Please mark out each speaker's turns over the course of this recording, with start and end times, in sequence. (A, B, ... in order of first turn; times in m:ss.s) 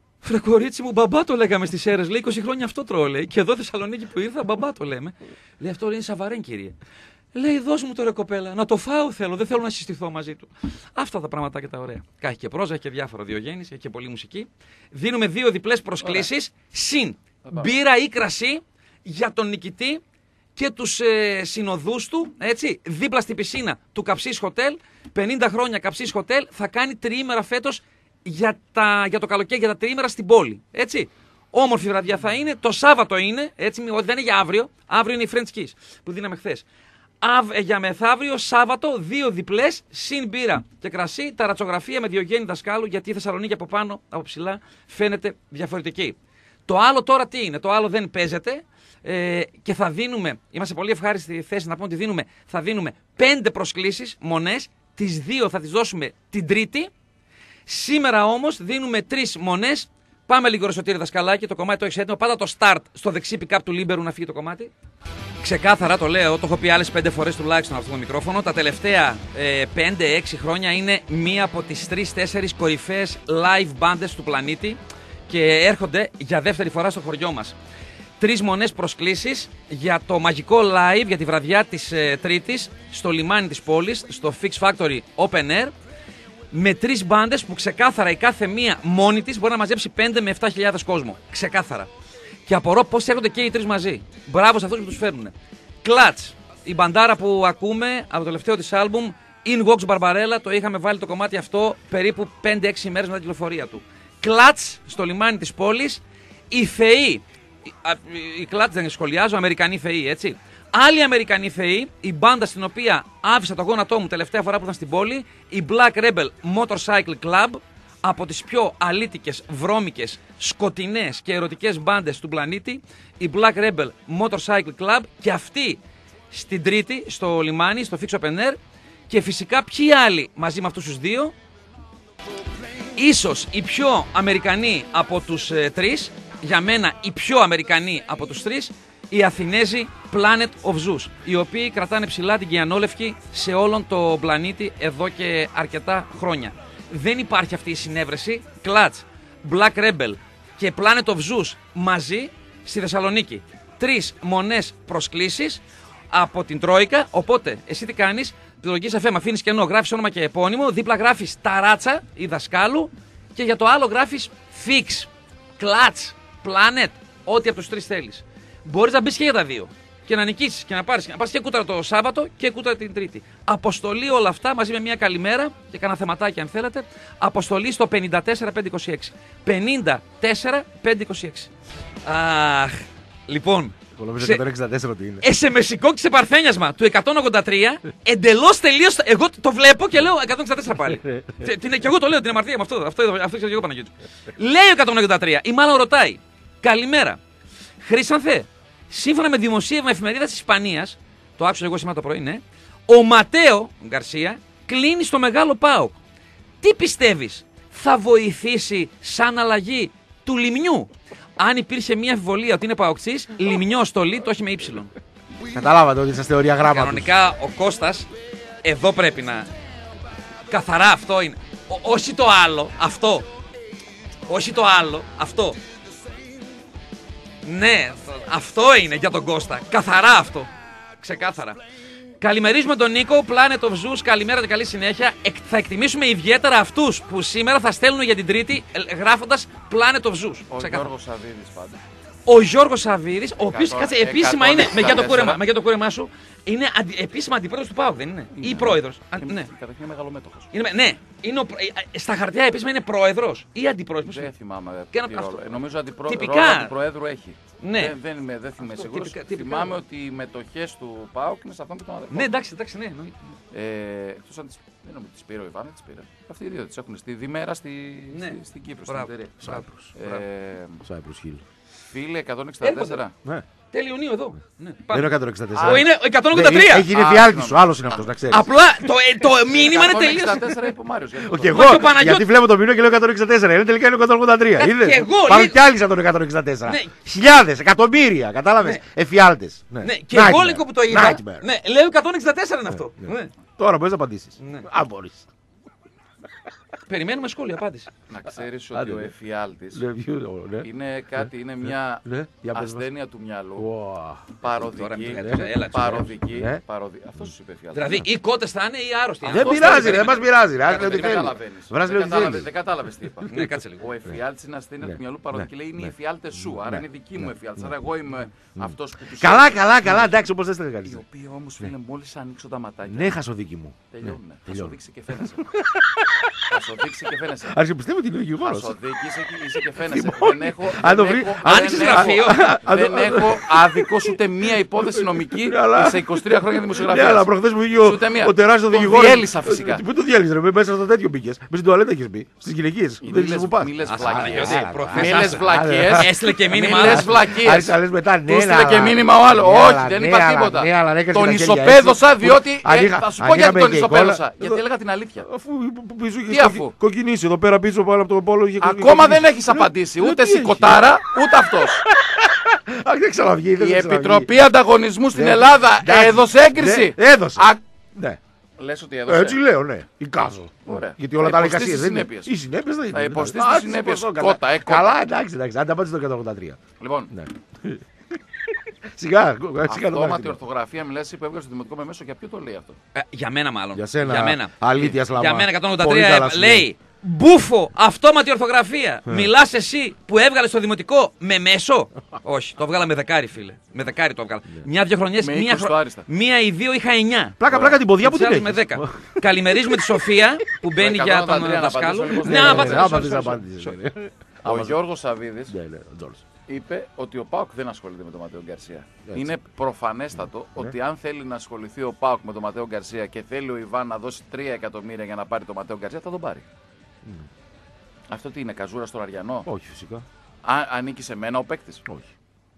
0:00.2-0:06.8 A
0:07.3-0:20.0 A
0:20.6-0:36.6 A
0:37.2-0:46.2 A
0:46.7-0:56.9 A
0:57.7-1:04.7 A
1:05.4-1:17.6 A
1:18.2-1:25.7 A
1:26.5-1:31.9 A
1:32.5-1:47.2 A
1:47.8-2:05.8 A
2:06.3-2:11.3 A
2:12.9-3:01.5 A
3:02.0-3:04.4 A
3:04.0-3:05.2 B
3:05.2-3:17.2 A
3:17.8-3:26.0 A
3:26.6-3:34.9 A
3:35.5-3:37.1 B
3:36.7-3:38.1 A
3:38.6-3:39.5 A
3:40.5-3:43.3 A
3:44.3-3:45.6 A
3:47.4-3:51.6 A
3:52.2-4:00.9 A
4:00.5-4:01.8 C
4:02.3-4:09.5 A
4:03.5-4:05.4 C
4:08.4-4:10.5 C
4:10.5-4:14.3 A
4:14.1-4:22.3 C
4:14.9-4:15.4 A
4:16.1-4:16.7 A
4:17.6-4:18.0 A
4:18.6-4:19.8 A
4:22.1-4:23.3 A
4:23.5-4:30.8 C
4:28.1-4:30.2 A
4:29.4-4:29.9 B
4:30.8-4:31.4 B
4:31.9-4:33.2 C
4:32.6-4:33.0 A
4:33.7-4:36.9 A
4:34.9-4:38.5 B
4:35.6-4:35.9 C
4:36.9-4:37.7 C
4:38.3-4:40.5 A
4:39.5-4:41.9 C
4:41.2-4:51.5 B
4:41.5-4:42.3 A
4:44.6-4:45.6 A
4:46.7-4:47.1 A
4:49.8-4:53.3 A
4:52.7-4:55.3 B
4:54.4-4:54.7 A
4:56.9-4:57.9 A
4:58.1-4:59.9 C
4:58.7-4:59.1 B
4:59.7-5:00.7 B
5:00.6-5:03.7 C
5:02.0-5:02.8 B
5:03.6-5:04.3 B
5:04.4-5:08.0 C
5:04.6-5:06.1 A
5:05.2-5:06.6 B
5:07.7-5:11.2 A
5:09.3-5:12.5 B
5:09.3-5:19.9 C
5:13.3-5:13.8 A
5:14.8-5:15.9 B
5:16.4-5:17.7 B
5:18.6-5:21.0 B
5:20.9-5:23.2 C
5:22.9-5:26.5 B
5:23.9-5:25.5 C
5:26.5-5:27.6 C
5:27.5-5:28.8 B
5:28.4-5:39.8 C
5:29.7-5:34.2 B
5:31.4-5:32.5 A
5:34.9-5:54.6 B
5:43.0-5:47.7 C
5:43.8-5:47.1 A
5:48.3-5:55.3 C
5:55.2-6:04.3 B
5:56.3-5:56.8 C
5:58.6-6:01.9 C
6:03.6-6:07.6 C
6:05.2-6:08.2 B
6:08.6-6:09.4 C
6:09.1-6:17.8 B
6:10.7-6:12.3 C
6:12.9-6:15.0 C
6:16.8-6:17.1 C
6:18.4-6:20.4 B
6:19.7-6:22.8 C
6:22.9-6:37.4 A
6:23.8-6:26.7 B
6:35.2-6:36.0 C
6:37.4-6:40.0 B
6:38.0-6:43.8 A
6:40.8-6:43.4 C
6:42.2-6:44.8 B
6:44.4-6:45.6 C
6:45.5-6:46.2 B
6:46.5-6:56.4 C
6:49.1-6:49.3 B
6:58.1-6:59.5 C
6:59.4-7:00.1 B
7:00.4-7:01.8 C